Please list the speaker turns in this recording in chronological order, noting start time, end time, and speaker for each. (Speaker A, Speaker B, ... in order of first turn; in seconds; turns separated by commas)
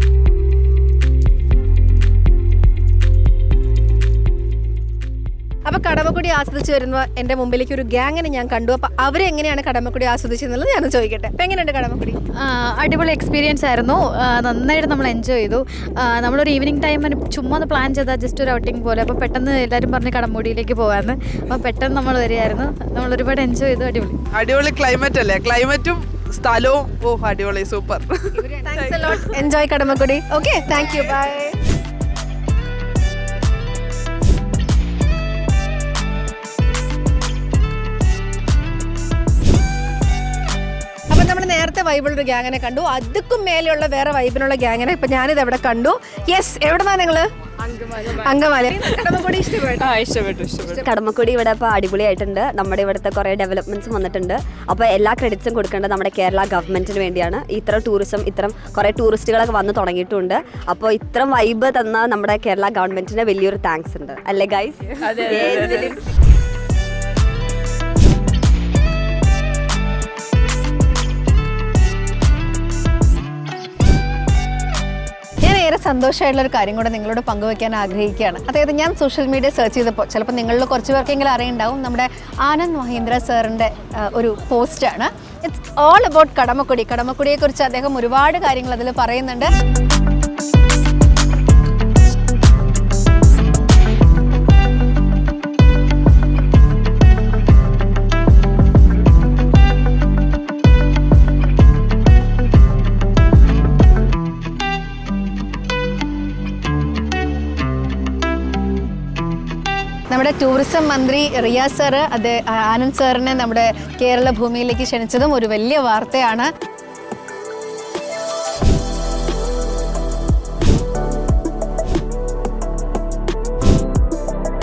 Speaker A: 5.7-12.2, Speaker B: 12.4-24.2, Speaker C: 24.3-28.1, Speaker A: 28.4-31.6, Speaker A: 41.1-47.2, Speaker A: 47.9-50.0, Speaker C: 50.1-50.5, Speaker D: 50.5-66.0, Speaker C: 65.2-65.9, Speaker A: 75.4-89.5, Speaker A: 110.1-116.5